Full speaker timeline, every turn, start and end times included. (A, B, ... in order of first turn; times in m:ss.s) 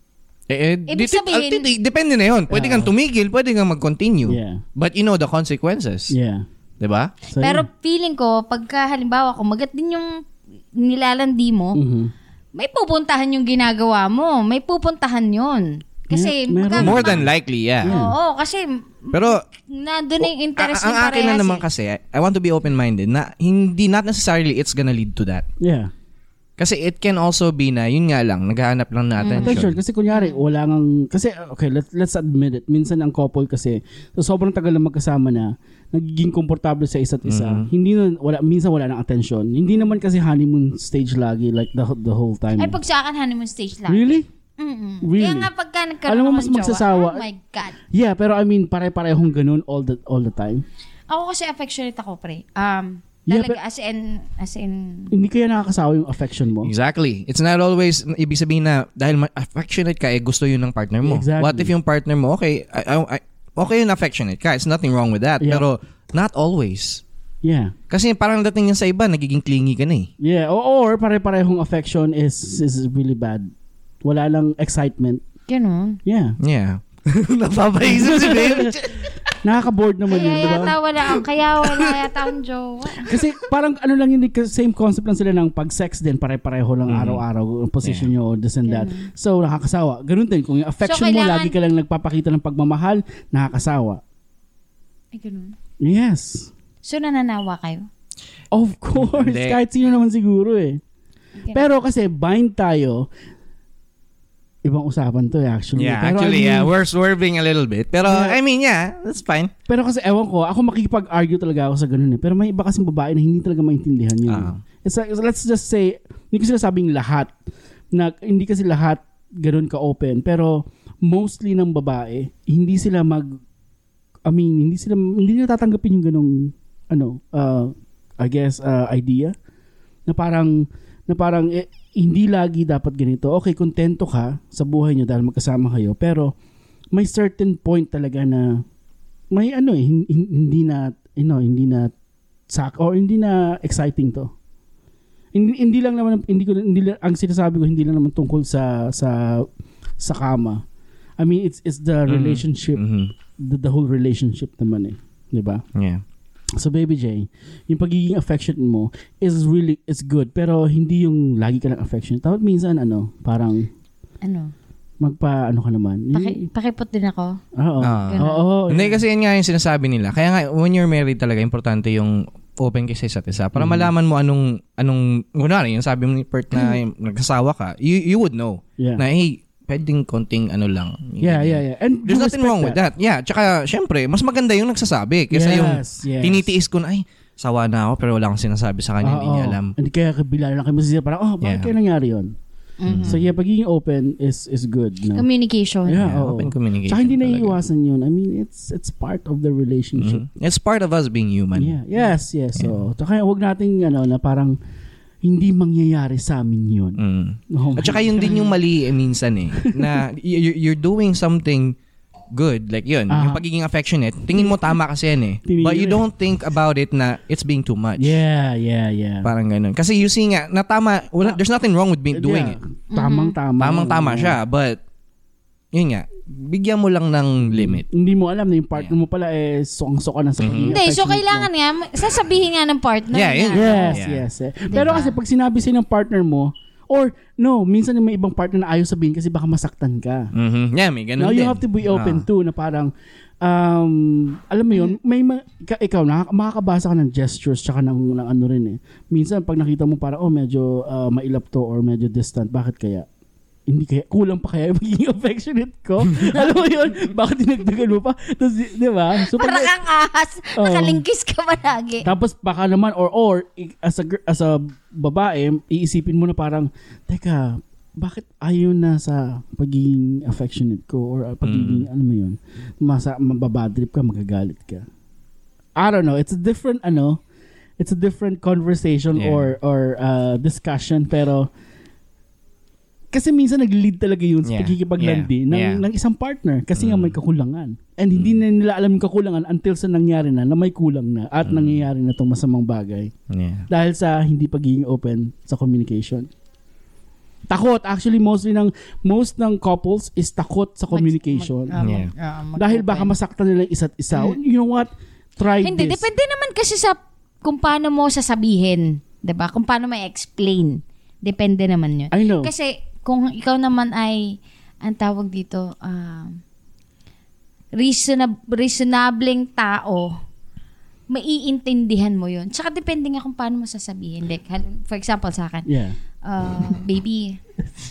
0:00.5-0:06.1 A
0:00.9-0:01.6 B
0:02.5-0:02.9 C
0:04.2-0:04.6 C
0:06.1-0:06.4 C
0:06.8-0:07.1 A
0:07.3-0:07.6 C
0:07.4-0:10.2 B
0:10.7-0:11.8 B
0:11.7-0:12.1 C
0:12.5-0:17.2 B
0:16.1-0:17.2 C
0:16.8-0:18.0 A
0:17.8-0:18.1 C
0:17.8-0:21.6 B
0:19.1-0:19.4 A
0:20.2-0:25.4 A
0:25.6-0:25.9 C
0:26.6-0:29.8 A
0:29.2-0:30.4 B
0:29.4-0:42.8 C
0:37.2-0:37.7 A
0:39.7-0:40.0 B
0:42.6-0:47.8 B
0:43.9-0:44.2 C
0:45.0-0:45.5 C
0:46.0-0:47.3 C
0:47.9-0:50.6 C
0:51.1-0:55.1 B
0:53.3-0:53.6 C
0:55.1-0:56.7 C
0:56.6-1:07.0 A
1:01.0-1:01.7 C
1:05.4-1:05.6 C
1:07.4-1:07.7 C
1:07.9-1:10.1 A
1:10.2-1:13.5 C
1:14.0-1:15.2 C
1:15.5-1:16.0 B
1:16.0-1:16.4 C
1:16.4-1:19.2 A
1:17.8-1:18.8 C
1:19.4-1:20.8 C
1:20.1-1:23.2 B
1:21.0-1:22.2 A
1:23.0-1:34.0 C
1:26.9-1:27.2 A
1:27.8-1:28.1 A
1:28.6-1:29.1 B
1:30.8-1:31.6 B
1:35.1-1:35.6 B
1:35.8-1:36.5 C
1:36.8-1:37.9 B
1:38.5-1:40.8 C
1:39.0-1:39.6 A
1:41.4-1:41.7 B
1:41.5-1:43.1 C
1:44.6-1:46.7 C
1:45.8-1:49.5 A
1:48.0-1:48.4 C
1:49.7-1:57.3 C
1:54.3-1:54.6 A
1:57.9-2:03.4 C
2:04.3-2:09.3 C
2:10.1-2:16.3 C
2:17.0-2:18.6 C
2:19.3-2:21.9 C
2:22.5-2:24.3 C
2:25.3-2:29.5 C
2:30.0-2:30.6 C
2:31.2-2:32.8 C
2:32.1-2:33.1 A
2:33.4-2:35.6 C
2:35.7-2:36.0 A
2:36.6-2:43.7 C
2:44.2-2:44.5 B
2:45.0-2:46.4 C
2:46.1-2:47.4 B
2:47.6-2:49.0 C
2:47.8-3:09.7 A
2:48.1-2:48.4 B
2:53.6-2:53.9 C
3:01.2-3:02.8 C
3:05.3-3:06.5 C
3:09.0-3:12.3 C
3:11.4-3:11.7 A
3:12.8-3:13.2 B
3:12.9-3:13.2 A
3:13.0-3:15.3 C
3:15.1-3:16.0 B
3:15.9-3:20.2 C
3:16.0-3:17.6 A
3:20.0-3:21.8 A
3:21.6-3:24.6 C
3:25.2-3:27.0 C
3:27.0-3:31.8 A
3:27.5-3:28.5 C
3:29.6-3:30.0 C
3:32.3-3:38.2 A
3:33.1-3:33.4 C
3:34.3-3:34.7 C
3:35.4-3:36.0 C
3:38.0-3:39.3 C
3:39.2-3:42.6 A
3:42.1-3:44.4 C
3:42.9-3:43.4 B
3:43.6-3:44.8 A
3:45.7-3:47.8 A
3:47.5-3:51.5 C
3:50.4-3:50.8 A
3:50.7-3:54.0 B
3:53.1-3:54.2 A
3:53.5-4:00.3 C
3:54.7-3:55.2 B
4:00.3-4:02.2 A
4:01.2-4:02.9 C
4:03.4-4:13.0 C
4:13.7-4:19.7 C
4:19.2-4:22.1 B
4:20.6-4:21.0 C
4:22.0-4:34.9 C
4:31.4-4:31.9 A
4:35.8-4:37.2 C
4:37.8-4:41.5 C
4:39.2-4:39.5 A
4:43.1-4:53.1 C
4:44.4-4:45.8 A
4:46.8-4:47.2 A
4:48.1-4:48.4 A
4:51.4-4:51.8 A
4:53.3-4:53.7 A
4:53.7-4:56.3 C
4:57.5-5:01.7 C
5:00.9-5:03.1 B
5:01.8-5:02.1 A
5:02.6-5:06.0 C
5:05.6-5:16.4 B
5:12.1-5:12.5 C
5:17.8-5:20.2 B
5:21.1-5:25.7 B
5:25.7-5:26.0 C
5:26.2-5:27.4 B